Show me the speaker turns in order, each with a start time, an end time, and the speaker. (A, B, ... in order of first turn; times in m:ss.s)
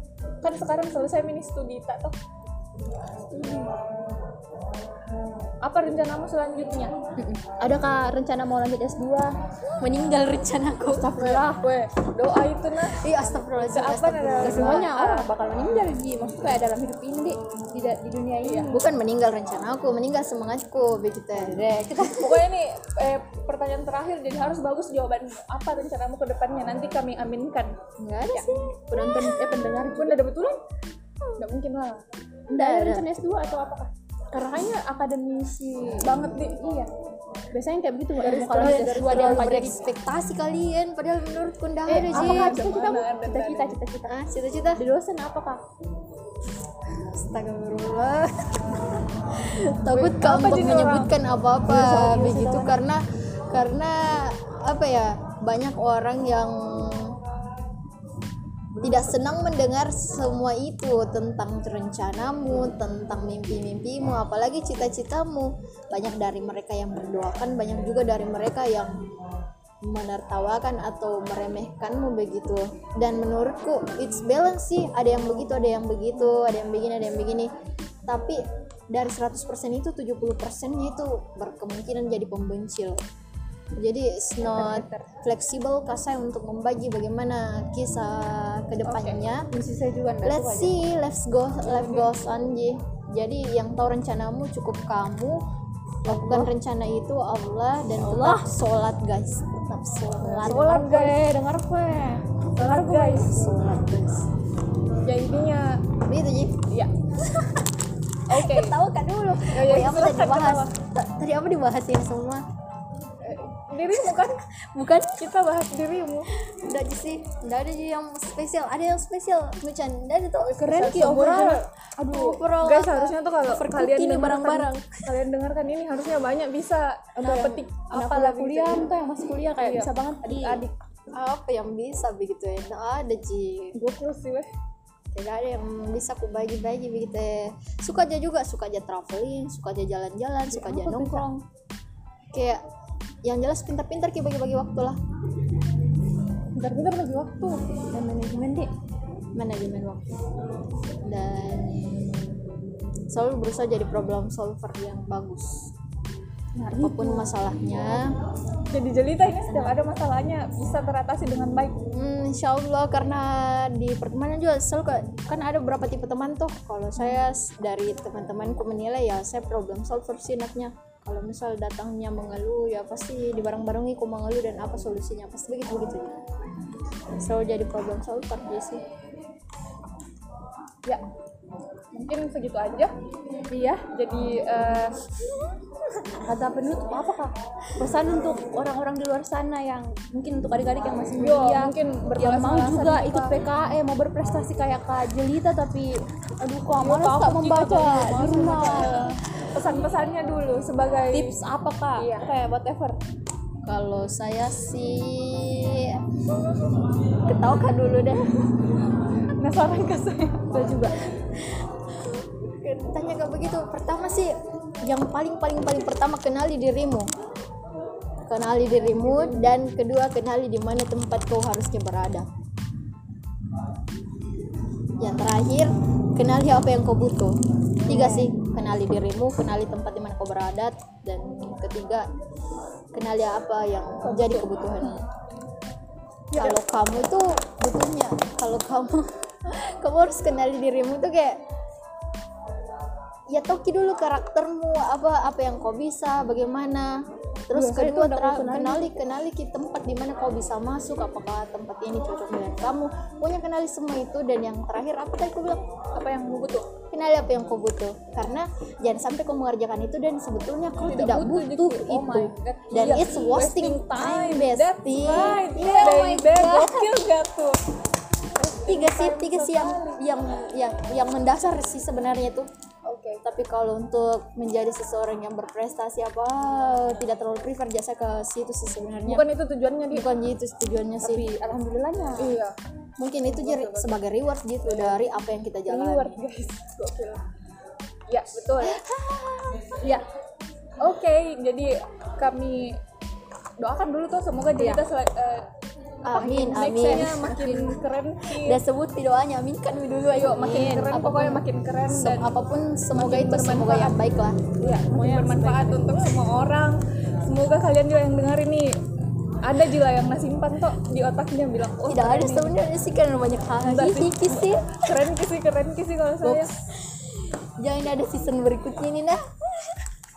0:00.4-0:02.2 A
0:03.3-0:03.7 A
0:05.6-0:06.9 A
0:07.4-0:09.4 B
0:09.8-0:11.1 C
0:10.8-0:11.6 B
0:11.2-0:15.3 A
0:13.0-0:14.9 C
0:14.4-0:18.8 B
0:18.4-0:18.7 A
0:18.7-0:22.4 C
0:22.1-0:27.8 A
0:28.0-0:29.0 C
0:28.3-0:30.2 B
0:29.9-0:30.6 A
0:31.4-0:32.0 A
0:32.5-0:36.8 B
0:32.5-0:33.0 C
0:36.0-0:36.9 A
0:37.5-0:39.8 B
0:38.2-0:39.7 A
0:38.5-0:42.6 C
0:41.8-0:44.2 B
0:42.0-0:43.8 A
0:44.1-0:44.8 C
0:44.7-0:45.6 B
0:46.9-0:57.2 C
0:49.9-0:51.1 A
0:51.6-0:52.8 B
0:58.8-1:09.0 C
1:09.8-1:17.5 C
1:18.0-1:23.0 C
1:23.8-1:29.5 C
1:24.5-1:25.0 A
1:28.9-1:29.1 A
1:29.5-1:30.8 B
1:30.2-1:35.4 C
1:31.7-1:32.1 A
1:36.0-1:40.9 C
1:36.1-1:36.5 B
1:38.0-1:38.5 B
1:40.2-1:43.5 B
1:40.4-1:41.2 A
1:42.6-1:43.4 A
1:42.6-1:44.3 C
1:45.0-1:45.8 A
1:46.0-1:46.6 C
1:47.2-1:47.7 C
1:48.3-1:52.4 C
1:48.3-1:48.8 A
1:49.5-1:50.7 A
1:53.2-1:54.4 A
1:54.0-1:55.2 C
1:55.2-1:56.3 A
1:56.4-2:05.1 C
2:00.4-2:08.9 A
2:00.6-2:01.6 B
2:07.2-2:10.7 B
2:07.3-2:07.5 C
2:09.6-2:10.7 A
2:11.1-2:13.8 C
2:13.7-2:14.5 A
2:15.1-2:21.3 C
2:20.5-2:21.4 B
2:22.3-2:22.6 C
2:23.2-2:25.0 C
2:26.5-2:27.7 A
2:27.8-2:28.7 B
2:29.3-2:30.2 C
2:31.0-2:32.4 C
2:33.1-2:35.7 C
2:36.7-2:38.2 C
2:36.7-2:37.3 B
2:38.7-2:41.8 A
2:39.4-2:39.8 C
2:41.9-2:56.2 C
2:57.2-2:58.8 C
3:01.9-3:02.9 A
3:03.5-3:03.9 B
3:03.9-3:05.0 A
3:06.2-3:19.2 B
3:11.2-3:13.4 A
3:16.8-3:21.3 A
3:21.1-3:23.0 B
3:22.0-3:22.3 A
3:23.6-3:26.0 C
3:27.2-3:28.4 C
3:29.4-3:30.5 A
3:30.5-3:31.0 B
3:32.4-3:37.1 C
3:38.3-3:42.3 C
3:38.8-3:39.4 A
3:45.0-3:52.1 C
3:47.9-3:48.2 A
3:52.9-3:55.1 C
3:54.0-3:54.9 A
3:56.3-3:56.6 A
3:56.3-4:01.4 C
4:03.3-4:15.7 C
4:07.5-4:09.0 B
4:15.9-4:16.7 A
4:16.9-4:26.8 C
4:20.8-4:27.6 A
4:25.1-4:26.8 B
4:28.3-4:30.0 A
4:28.6-4:32.5 C
4:32.8-4:33.2 A
4:33.2-4:39.2 C
4:39.1-4:40.1 A
4:39.9-4:41.4 C
4:41.0-4:42.4 B
4:42.2-4:42.5 A
4:43.0-4:46.2 C
4:43.3-4:44.0 A
4:44.6-4:45.0 A
4:45.7-4:47.2 A
4:48.1-4:48.8 A
4:48.6-4:49.5 C
4:49.8-4:50.0 A
4:50.8-4:52.8 A
4:53.6-4:55.5 A
4:56.0-4:57.7 C
4:56.1-4:58.6 A
4:58.3-5:04.5 C
5:00.1-5:02.4 A
5:02.9-5:04.0 A
5:04.6-5:08.8 A
5:04.6-5:05.9 B
5:09.4-5:12.5 A
5:11.9-5:14.9 C
5:13.6-5:16.5 A
5:16.2-5:19.8 C